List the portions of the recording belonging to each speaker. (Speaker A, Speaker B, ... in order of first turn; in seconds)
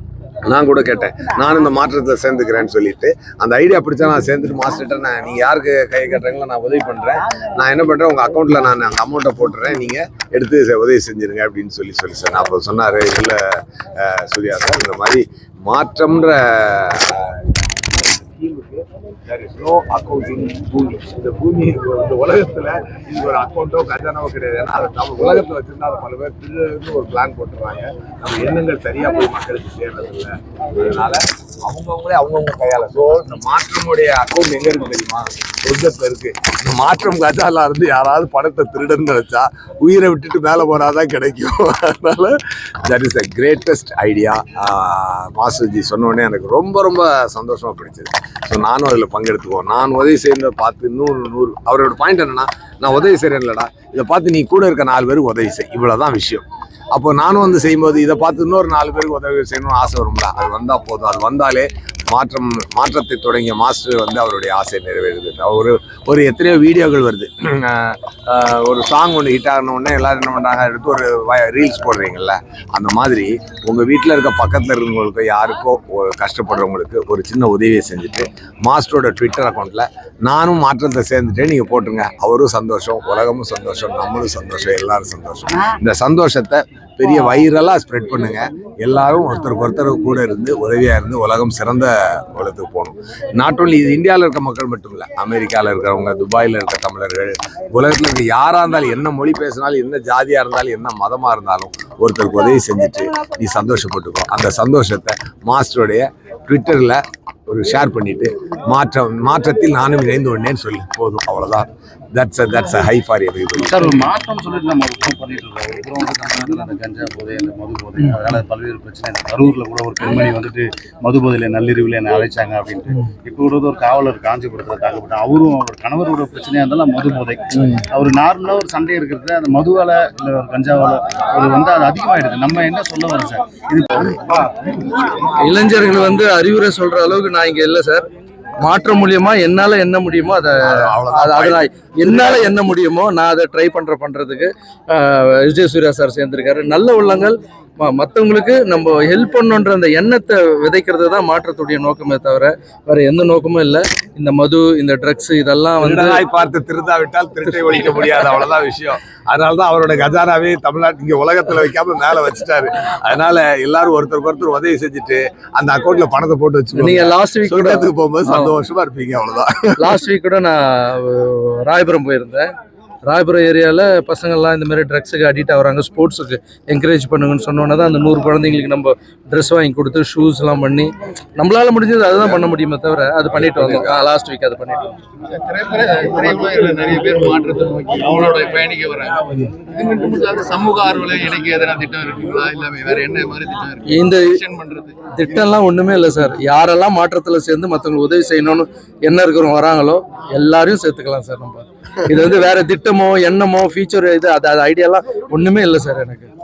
Speaker A: 0.5-113.9, 135.0-135.6, 140.6-142.6, 155.8-170.0, 183.4-184.1
Speaker B: 113.6-134.8
Speaker C: 127.6-127.8, 135.4-138.1, 138.6-156.2, 166.8-168.5, 169.8-172.5, 173.1-184.9, 193.8-194.4, 195.1-206.3
Speaker D: 185.3-195.1